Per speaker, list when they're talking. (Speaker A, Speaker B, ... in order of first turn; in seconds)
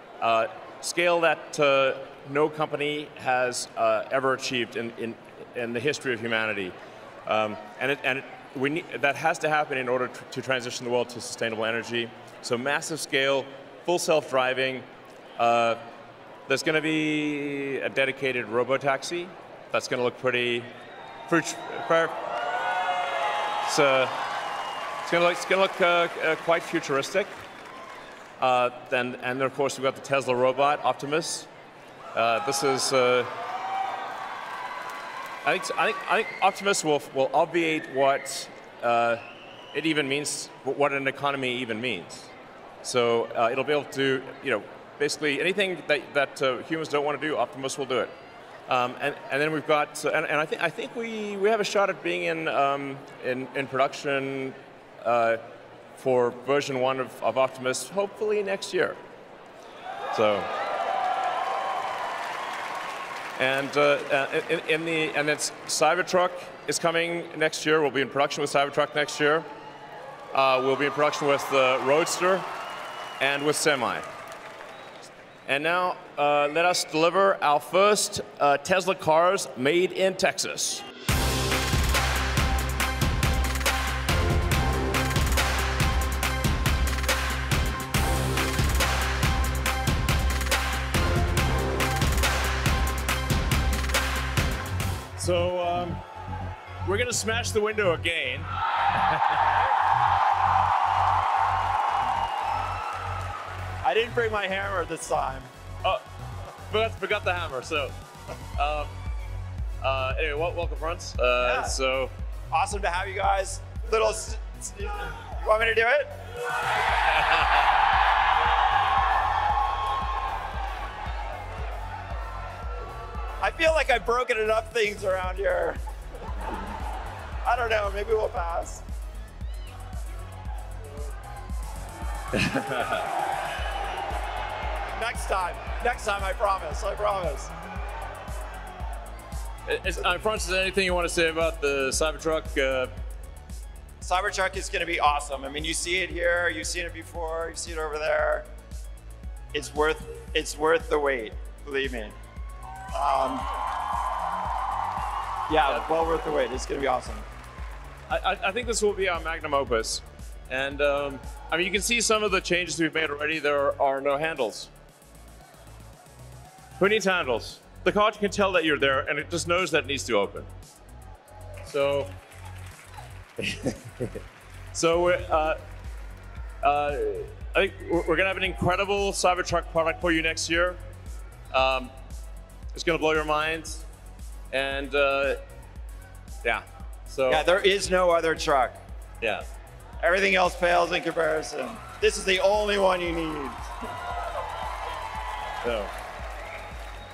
Speaker A: 0.2-6.7, 7.2-14.8, 15.4-15.8, 16.5-20.7, 21.3-22.1, 23.6-24.1, 25.0-27.3, 28.4-31.5, 32.1-33.3, 35.4-42.3, 42.8-48.1, 48.7-55.4, 56.0-59.0, 60.1-60.5, 63.4-69.5, 70.3-72.5, 73.2-74.0, 75.5-80.8, 95.2-96.0, 96.8-98.5, 99.0-99.4, 106.7-107.9, 108.5-108.9, 109.8-112.1, 132.3-133.0, 139.7-142.9, 158.1-164.7, 166.8-170.5, 171.6-172.1, 173.4-174.2, 174.7-175.6, 176.6-180.8, 181.5-181.9, 182.7-183.8, 184.5-185.4, 186.4-187.4, 195.6-195.9
Speaker B: 103.8-105.5, 111.4-111.7, 112.5-116.1, 123.4-125.8, 127.4-128.8, 134.9-137.5, 144.0-148.5, 149.5-152.2, 152.9-153.4, 155.5-157.2, 187.3-188.7, 190.0-193.6